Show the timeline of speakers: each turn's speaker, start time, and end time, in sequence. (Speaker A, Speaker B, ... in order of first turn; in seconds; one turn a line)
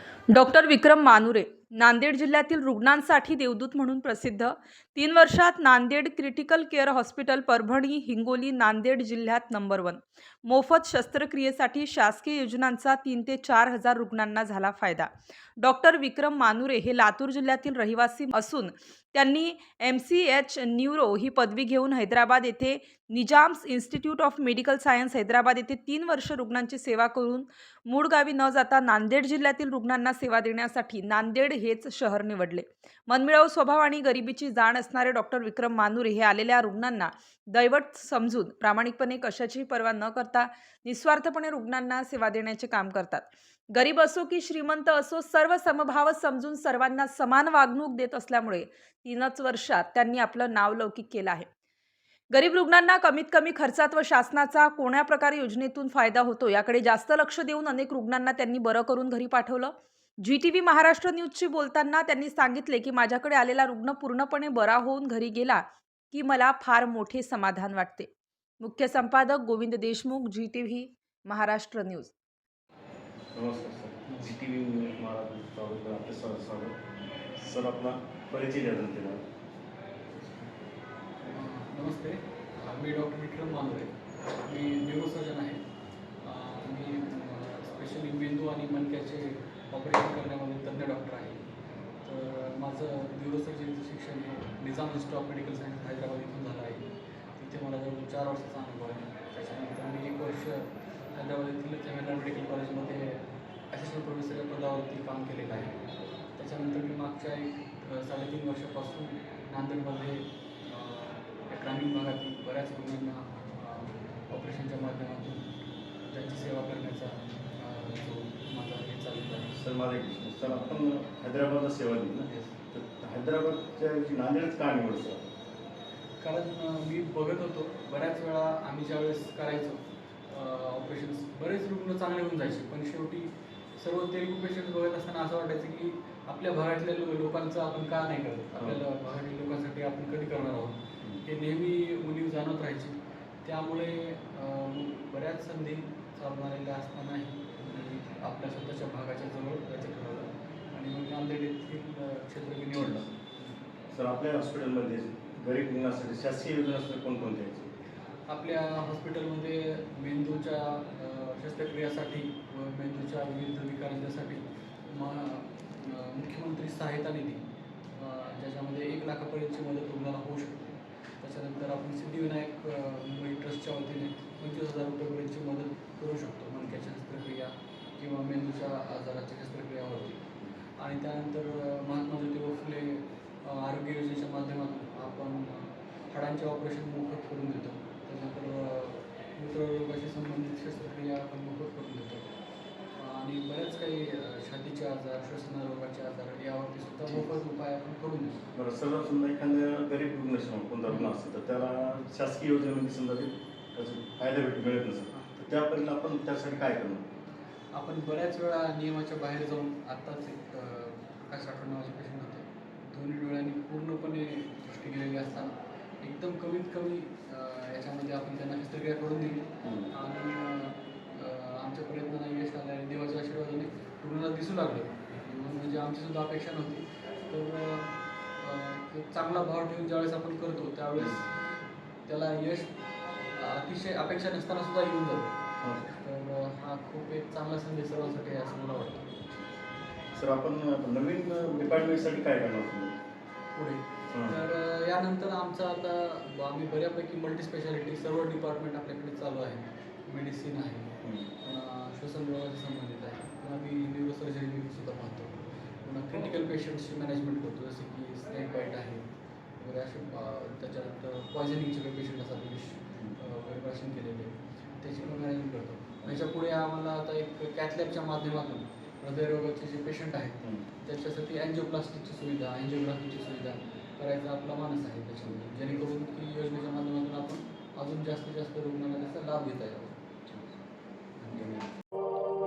Speaker A: 0.3-51.5
Speaker A: 52.3-68.1
Speaker A: 68.6-72.1
Speaker B: 73.3-76.8
Speaker C: 74.1-74.3
Speaker B: 77.4-79.2
Speaker C: 81.2-83.9
Speaker C: 84.5-85.6
Speaker C: 86.2-91.4
Speaker C: 92.0-105.8
Speaker C: 106.3-115.5
Speaker C: 116.1-119.5
Speaker B: 119.5-125.2
Speaker C: 122.2-122.5
Speaker C: 126.2-153.5
Speaker B: 138.6-138.8
Speaker B: 152.7-153.1
Speaker B: 153.9-157.7
Speaker C: 158.3-180.2
Speaker C: 180.8-192.3
Speaker C: 192.9-198.4
Speaker B: 198.5-207.1
Speaker C: 200.9-201.2
Speaker C: 205.1-205.4
Speaker C: 207.7-231.3
Speaker B: 219.6-219.9
Speaker B: 231.0-231.2
Speaker C: 232.1-232.8
Speaker C: 233.3-239.1
Speaker B: 240.1-243.0
Speaker C: 243.5-280.0
Speaker B: 244.1-244.4
Speaker B: 251.0-251.3
Speaker C: 281.2-281.7